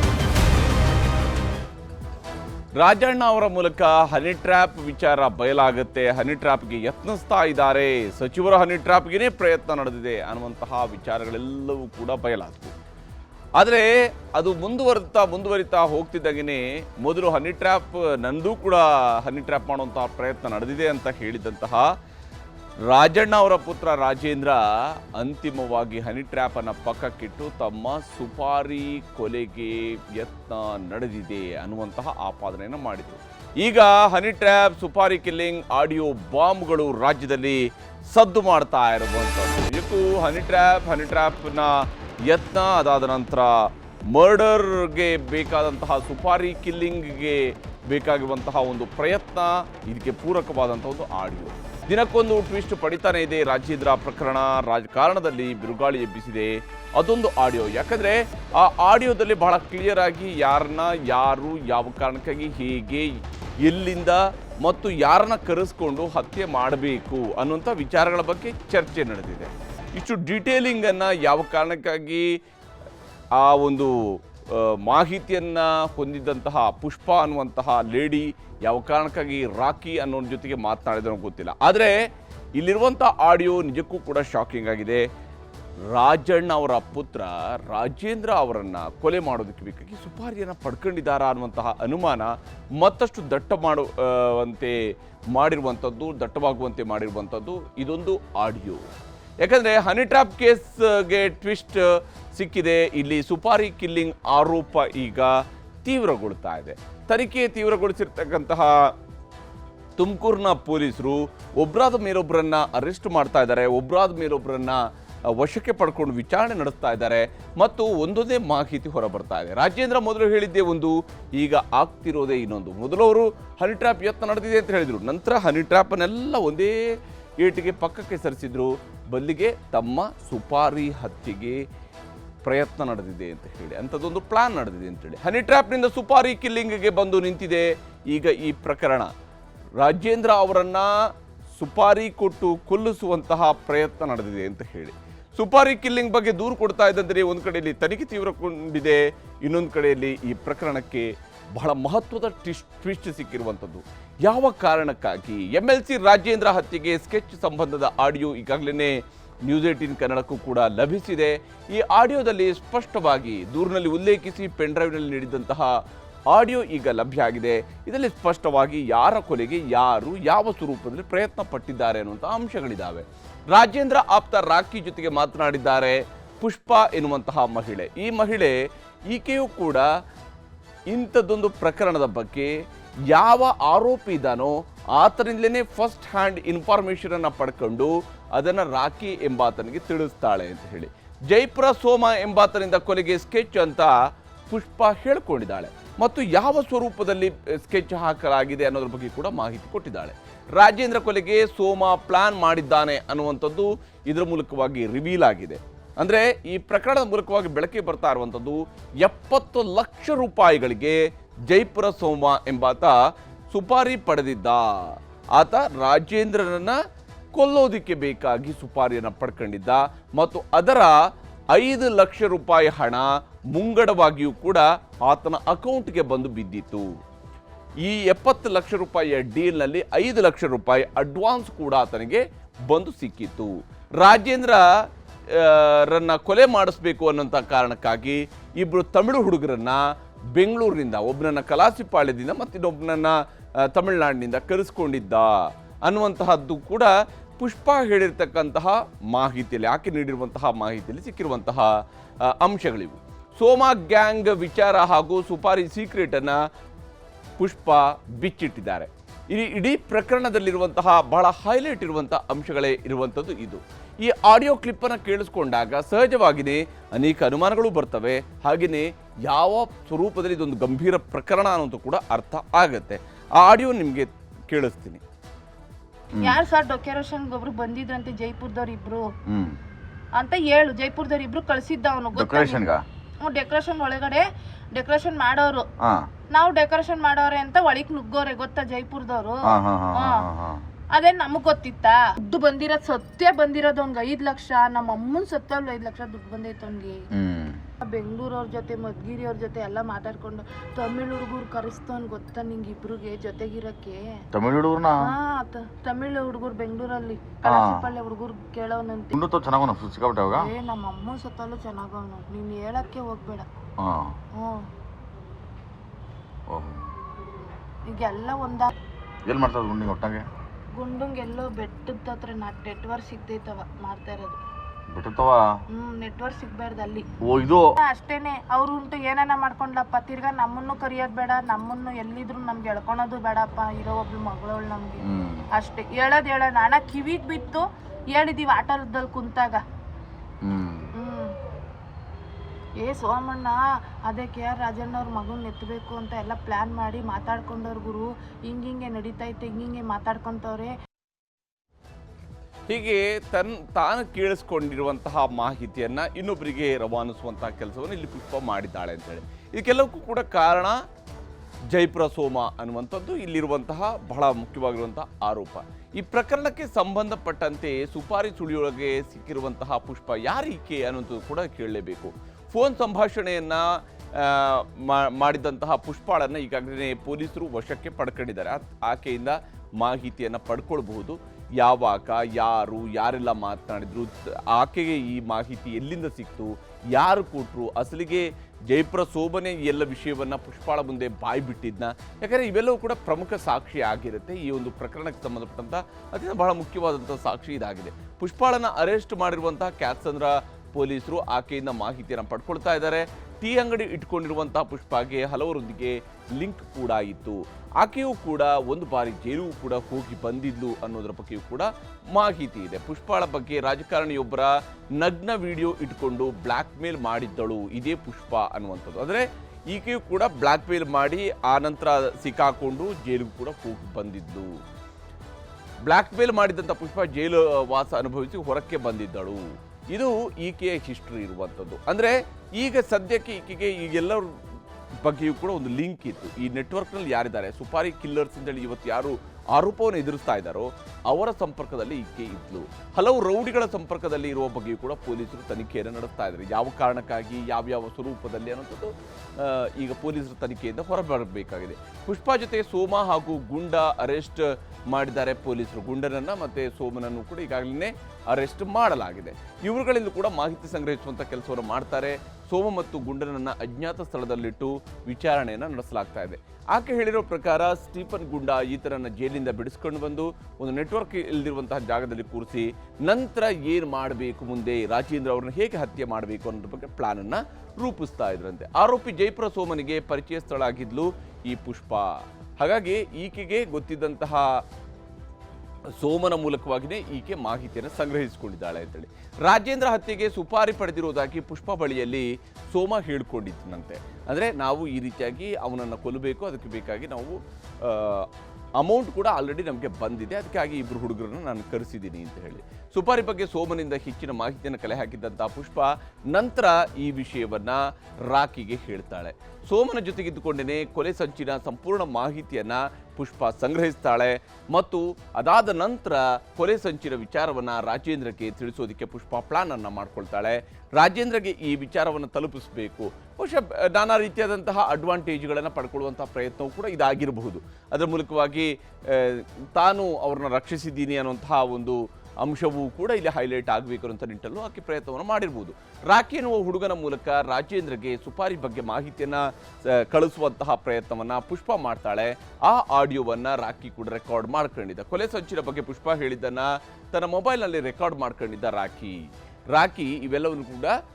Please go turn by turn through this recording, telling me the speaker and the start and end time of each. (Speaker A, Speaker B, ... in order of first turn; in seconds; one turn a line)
Speaker A: 2.8-12.8
Speaker A: 13.6-21.9
Speaker A: 22.9-24.6
Speaker A: 25.2-72.3
Speaker A: 73.4-82.0
Speaker A: 82.6-85.0
Speaker A: 85.9-94.8
Speaker A: 95.3-98.8
Speaker A: 99.4-105.3
Speaker A: 105.8-108.9
Speaker A: 110.0-131.6
Speaker A: 132.4-139.1
Speaker A: 139.8-140.9
Speaker A: 141.6-165.8
Speaker A: 166.3-178.5
Speaker A: 179.1-179.8
Speaker A: 180.9-182.5
Speaker A: 183.1-193.9
Speaker A: 194.5-212.9
Speaker A: 213.5-216.8
Speaker A: 217.4-220.9
Speaker A: 221.5-226.9
Speaker A: 227.8-234.6
Speaker A: 235.3-251.7
Speaker A: 252.2-256.4
Speaker A: 257.4-275.0
Speaker B: 276.2-279.1
Speaker C: 279.3-279.6
Speaker B: 280.2-282.6
Speaker C: 282.1-282.8
Speaker B: 283.2-285.6
Speaker B: 286.3-290.3
Speaker C: 289.5-290.6
Speaker B: 290.9-297.0
Speaker C: 297.1-297.6
Speaker B: 297.8-304.0
Speaker C: 304.3-305.0
Speaker B: 305.0-309.2
Speaker C: 307.4-307.9
Speaker C: 309.1-310.4
Speaker B: 310.4-313.5
Speaker C: 313.8-314.1
Speaker B: 314.4-314.7
Speaker C: 316.5-316.9
Speaker B: 317.9-318.7
Speaker C: 319.3-320.2
Speaker B: 320.8-324.4
Speaker C: 324.9-325.4
Speaker B: 325.7-327.1
Speaker C: 327.2-327.7
Speaker B: 327.8-335.0
Speaker C: 335.1-335.5
Speaker B: 335.6-339.6
Speaker C: 340.4-340.9
Speaker B: 341.0-341.3
Speaker B: 342.8-350.7
Speaker A: 352.7-360.8
Speaker A: 361.7-424.5
Speaker A: 425.9-434.3
Speaker A: 435.0-484.5
Speaker A: 486.0-498.3
Speaker A: 498.8-550.9